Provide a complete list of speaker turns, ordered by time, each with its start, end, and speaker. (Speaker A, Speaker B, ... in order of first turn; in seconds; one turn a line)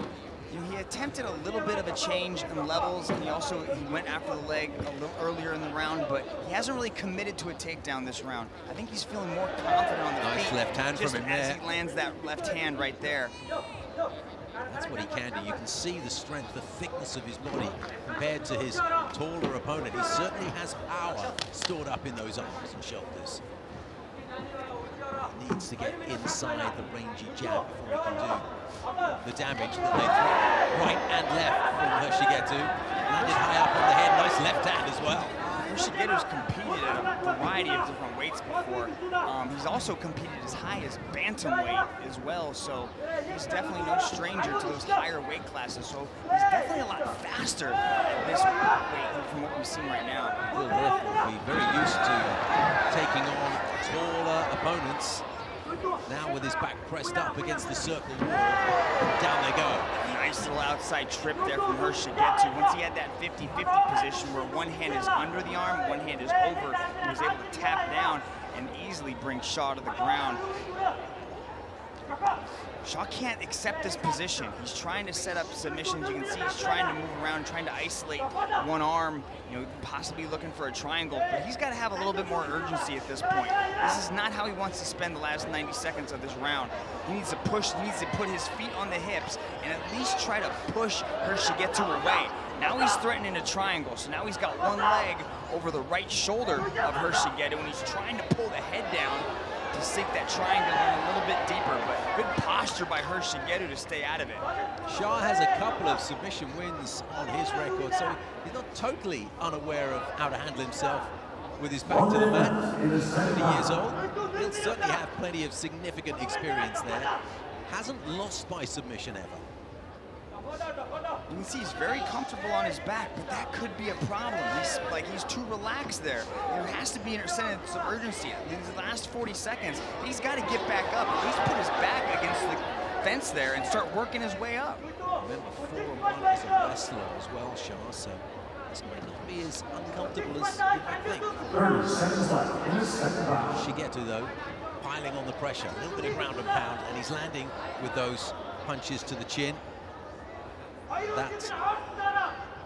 Speaker A: 0.5-13.3
Speaker B: 10.2-11.6
Speaker B: 14.7-23.4
Speaker B: 25.3-28.5
Speaker B: 29.2-35.4
Speaker A: 33.1-33.4
Speaker A: 35.6-50.4
Speaker B: 50.5-55.2
Speaker B: 56.1-58.6
Speaker B: 59.2-59.9
Speaker A: 60.0-70.4
Speaker A: 72.8-104.5
Speaker B: 104.9-117.1
Speaker B: 117.7-119.4
Speaker A: 121.3-134.9
Speaker B: 135.2-149.6
Speaker B: 151.1-151.6